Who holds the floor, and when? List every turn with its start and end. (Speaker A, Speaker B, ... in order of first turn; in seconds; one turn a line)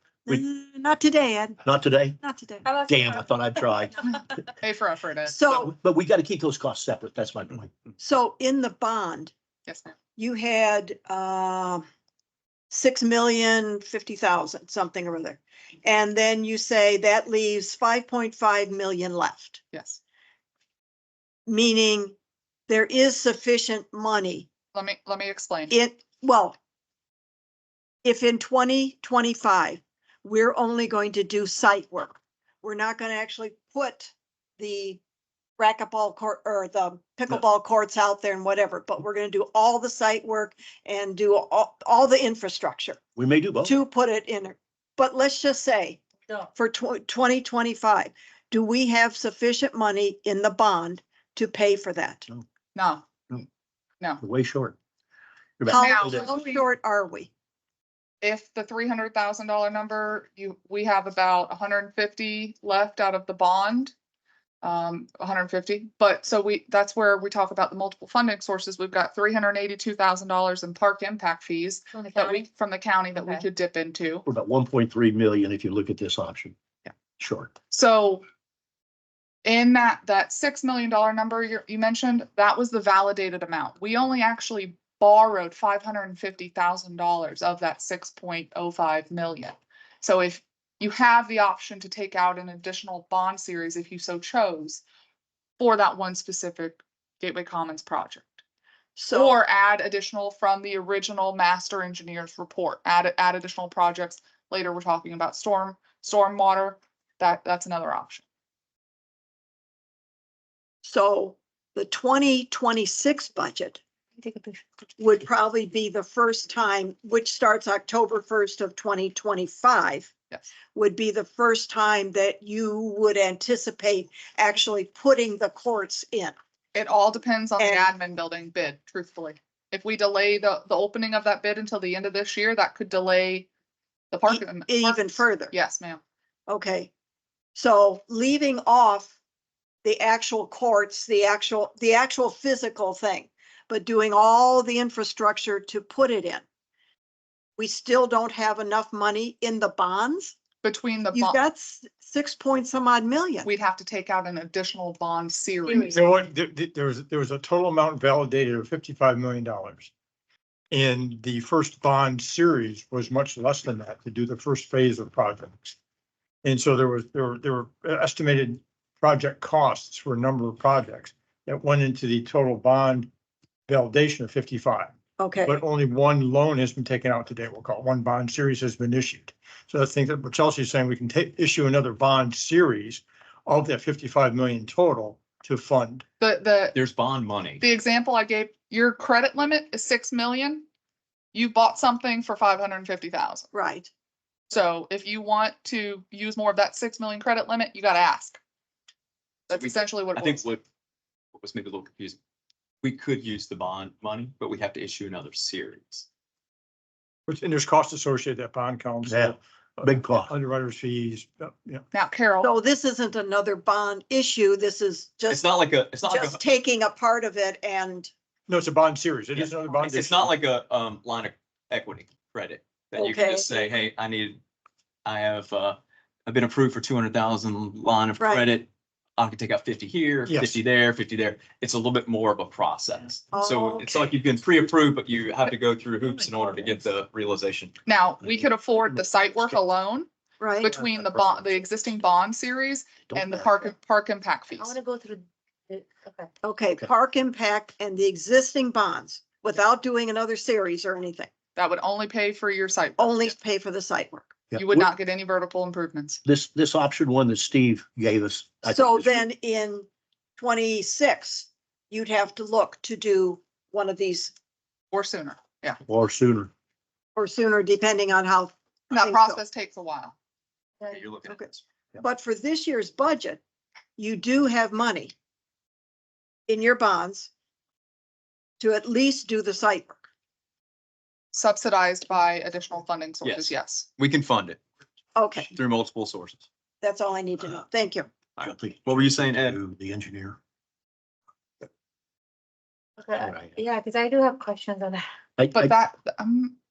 Speaker A: 0.3-1.6
Speaker B: 1.6-2.2
Speaker A: 2.2-2.6
Speaker C: 2.6-3.3
Speaker B: 2.9-4.0
Speaker D: 4.6-5.4
Speaker A: 5.3-5.7
Speaker B: 5.5-7.7
Speaker A: 8.0-9.3
Speaker A: 10.2-11.8
Speaker A: 12.7-19.6
Speaker D: 19.7-20.0
Speaker A: 21.5-22.1
Speaker A: 22.7-24.5
Speaker D: 24.7-25.8
Speaker A: 25.7-26.6
Speaker A: 28.0-35.0
Speaker A: 35.6-43.0
Speaker B: 43.2-43.8
Speaker A: 43.6-46.0
Speaker A: 46.5-52.3
Speaker D: 52.8-53.0
Speaker B: 54.2-54.8
Speaker B: 55.6-56.3
Speaker A: 55.7-57.3
Speaker D: 55.7-56.6
Speaker D: 58.2-63.9
Speaker D: 64.6-74.2
Speaker C: 71.9-72.5
Speaker C: 73.2-73.5
Speaker B: 74.3-76.6
Speaker B: 77.2-77.5
Speaker D: 77.7-78.2
Speaker D: 79.5-94.8
Speaker D: 95.6-98.3
Speaker A: 99.0-99.4
Speaker D: 99.1-108.2
Speaker A: 110.8-113.8
Speaker C: 114.2-114.6
Speaker A: 115.0-120.1
Speaker A: 120.7-126.3
Speaker D: 126.7-133.5
Speaker A: 127.6-127.9
Speaker D: 134.1-136.0
Speaker A: 134.3-135.5
Speaker A: 136.5-136.9
Speaker A: 137.6-139.1
Speaker A: 139.8-146.4
Speaker A: 147.6-150.3
Speaker D: 150.6-151.4
Speaker A: 151.1-153.5
Speaker D: 153.4-156.0
Speaker C: 155.7-155.9
Speaker E: 155.9-159.9
Speaker E: 160.7-165.8
Speaker E: 166.4-173.1
Speaker E: 173.7-174.9
Speaker A: 175.2-175.6
Speaker E: 175.4-186.1
Speaker D: 186.2-186.8
Speaker F: 186.8-187.6
Speaker D: 187.6-190.7
Speaker D: 191.3-193.5
Speaker A: 193.5-193.9
Speaker D: 194.5-198.4
Speaker D: 199.5-200.5
Speaker F: 199.5-200.6
Speaker F: 201.3-202.2
Speaker F: 202.8-206.1
Speaker E: 207.3-211.8
Speaker B: 209.1-210.3
Speaker D: 211.9-212.5
Speaker A: 212.4-218.1
Speaker F: 215.3-216.4
Speaker E: 218.5-220.3
Speaker F: 219.4-224.4
Speaker A: 222.9-223.6
Speaker F: 225.1-237.7
Speaker A: 228.2-228.5
Speaker E: 230.3-230.6
Speaker A: 233.3-234.2
Speaker D: 237.9-240.1
Speaker A: 240.4-240.7
Speaker D: 240.6-244.8
Speaker B: 243.1-243.5
Speaker C: 244.6-246.3
Speaker A: 246.4-251.3
Speaker D: 251.6-253.3
Speaker A: 253.0-254.3
Speaker B: 254.5-254.9
Speaker D: 254.6-256.2
Speaker B: 256.2-259.2
Speaker A: 258.6-259.9
Speaker A: 260.4-264.3
Speaker D: 264.9-265.8
Speaker B: 265.9-266.5
Speaker A: 267.1-269.4
Speaker D: 268.9-270.1
Speaker F: 270.9-271.6
Speaker A: 271.2-273.4
Speaker A: 274.0-275.1
Speaker A: 276.5-277.3
Speaker A: 278.6-280.0
Speaker D: 281.3-283.9
Speaker F: 283.2-284.6
Speaker A: 285.1-285.5
Speaker F: 285.5-286.4
Speaker A: 286.8-288.1
Speaker F: 288.4-289.6
Speaker B: 288.4-290.4
Speaker C: 293.0-295.0
Speaker B: 293.2-293.6
Speaker B: 295.4-295.8
Speaker D: 295.5-296.6